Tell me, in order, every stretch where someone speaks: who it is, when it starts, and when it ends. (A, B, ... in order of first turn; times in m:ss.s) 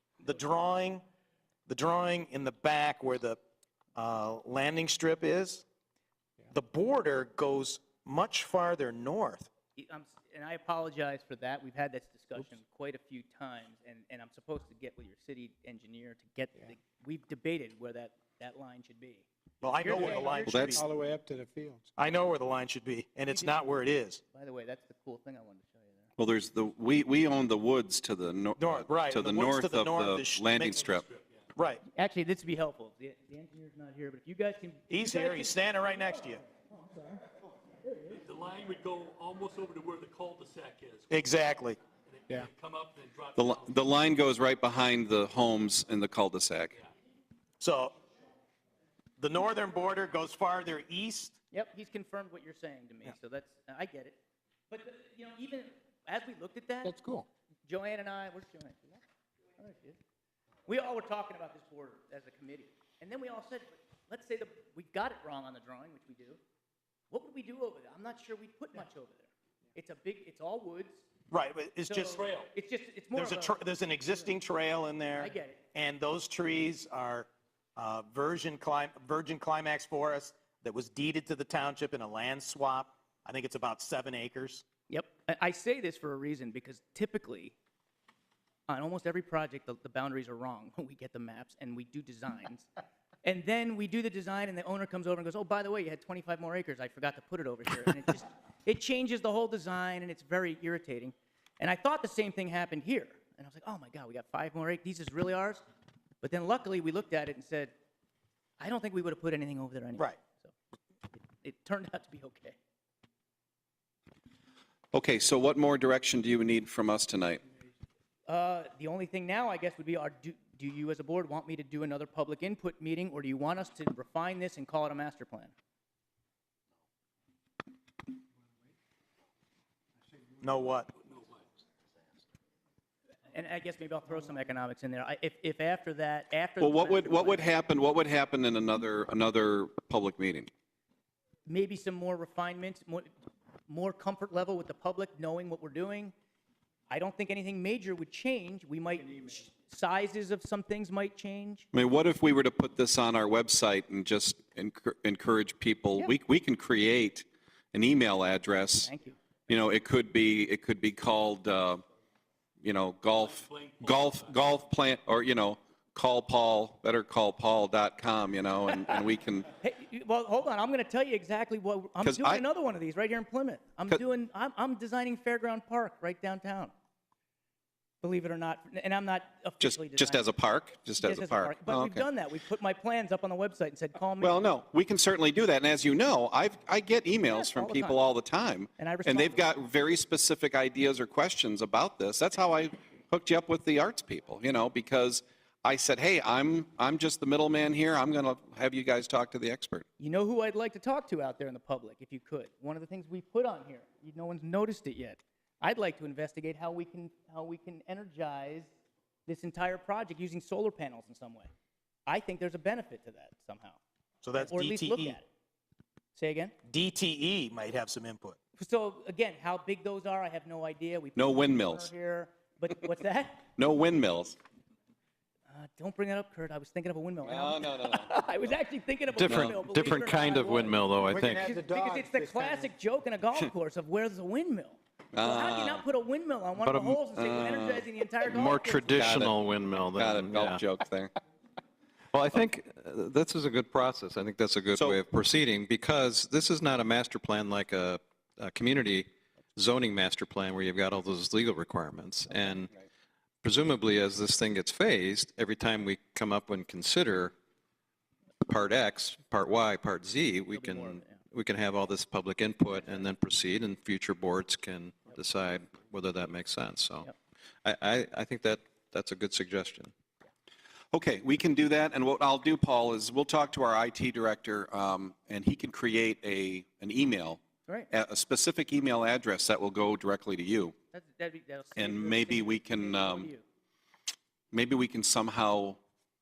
0:00.2-0:01.0 A
0:01.7-0:03.4 A
0:04.0-0:05.6 A
0:06.5-0:09.5 A
0:09.8-0:19.3 B
0:19.6-0:20.8 A
0:19.8-0:20.9 B
0:19.9-0:21.9 C
0:20.5-0:20.8 D
0:22.0-0:24.2 A
0:23.3-0:23.6 B
0:24.3-0:26.1 B
0:26.2-0:31.0 D
0:28.6-0:30.9 A
0:30.7-0:31.4 E
0:31.6-0:31.8 A
0:31.9-0:37.2 B
0:34.9-0:36.4 A
0:37.8-0:38.2 B
0:38.2-0:41.1 E
0:41.1-0:41.8 A
0:42.1-0:43.7 E
0:43.4-0:46.8 D
0:47.6-0:47.9 A
0:49.2-0:51.4 A
0:51.5-0:54.2 B
0:54.7-0:57.0 B
0:56.8-0:57.3 C
0:57.7-0:59.0 B
0:59.6-1:00.0 B
1:00.7-1:06.4 B
1:07.1-1:11.0 B
1:11.3-1:12.2 A
1:11.9-1:13.6 B
1:12.1-1:12.5 E
1:13.2-1:24.6 A
1:15.2-1:15.6 B
1:24.9-1:27.6 B
1:28.7-1:32.7 B
1:33.2-1:45.6 B
1:46.2-1:47.7 B
1:48.6-1:50.5 B
1:51.3-1:52.6 B
1:54.9-1:57.4 D
1:58.3-2:05.5 B
2:10.4-2:10.9 A
2:13.3-2:17.6 B
2:16.6-2:20.5 D
2:21.5-2:23.1 B
2:23.7-2:26.1 B
2:26.9-2:31.7 B
2:31.7-2:38.9 D
2:38.8-2:39.2 B
2:39.5-2:41.8 D
2:42.6-2:49.5 D
2:43.2-2:44.5 E
2:49.6-2:56.7 B
2:52.0-2:52.4 D
2:58.0-3:00.3 B
2:59.6-3:02.1 D
3:01.0-3:04.4 B
3:04.2-3:19.8 D
3:07.3-3:08.0 B
3:08.8-3:09.5 B
3:20.0-3:28.7 B
3:29.3-3:31.5 B
3:32.1-3:33.8 B
3:34.2-3:35.2 A
3:34.4-3:35.3 B
3:36.2-3:36.6 B
3:36.6-3:38.4 A
3:38.6-3:43.5 B
3:41.2-3:41.9 D
3:43.6-3:44.4 D
3:45.5-3:50.8 B
3:47.2-3:48.1 D
3:49.1-3:51.6 F
3:49.3-3:49.6 D
3:51.0-3:52.7 C
3:51.3-3:59.0 B
3:55.1-3:55.8 D
3:56.6-3:57.0 F
3:57.2-3:57.9 D
3:58.2-4:00.6 F
3:58.9-3:59.3 D
4:00.0-4:01.1 D
4:02.1-4:12.7 F
4:04.7-4:05.0 D
4:13.4-4:17.3 F
4:18.4-4:27.1 F
4:20.5-4:21.2 B
4:27.6-4:29.9 F
4:30.9-4:37.4 D
4:37.9-4:40.8 D
4:40.9-4:43.4 B
4:41.8-4:43.3 D
4:44.5-4:45.8 D